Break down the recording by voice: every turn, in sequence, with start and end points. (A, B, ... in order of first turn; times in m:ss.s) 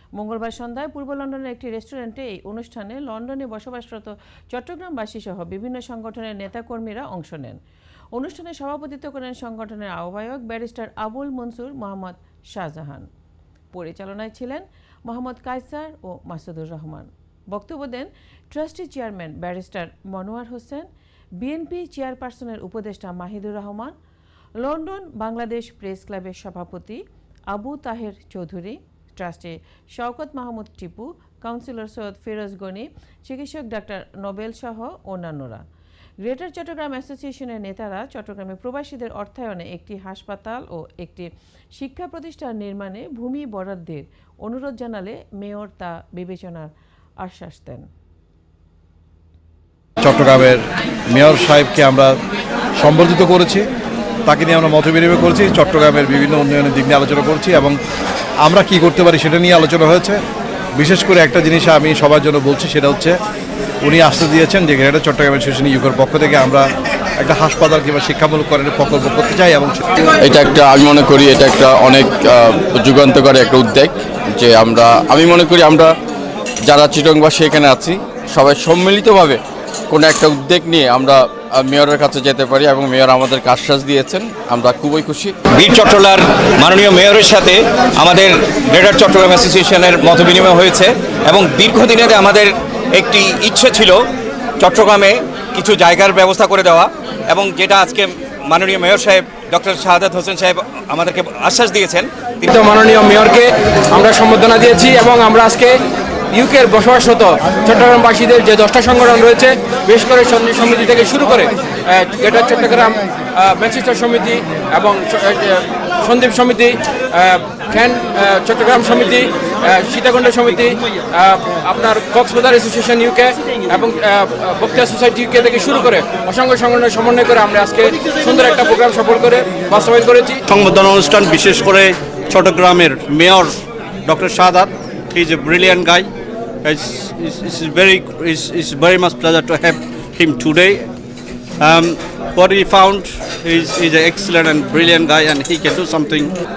0:00.2-0:07.6 A
0:08.1-0:13.1 A
0:13.7-0:20.9 A
0:21.4-0:23.9 A
0:24.6-0:35.6 A
0:36.2-0:47.9 A
0:50.0-0:52.1 B
0:52.8-0:53.7 B
0:54.2-0:57.8 B
0:58.4-1:00.2 B
1:00.8-1:03.2 B
1:03.8-1:06.7 B
1:07.2-1:09.8 B
1:10.2-1:15.9 C
1:16.6-1:25.3 C
1:25.5-1:34.0 D
1:34.6-1:42.1 D
1:42.5-1:45.7 E
1:46.3-2:10.4 E
2:10.5-2:16.1 F
2:16.6-2:20.9 F
2:21.6-2:26.3 F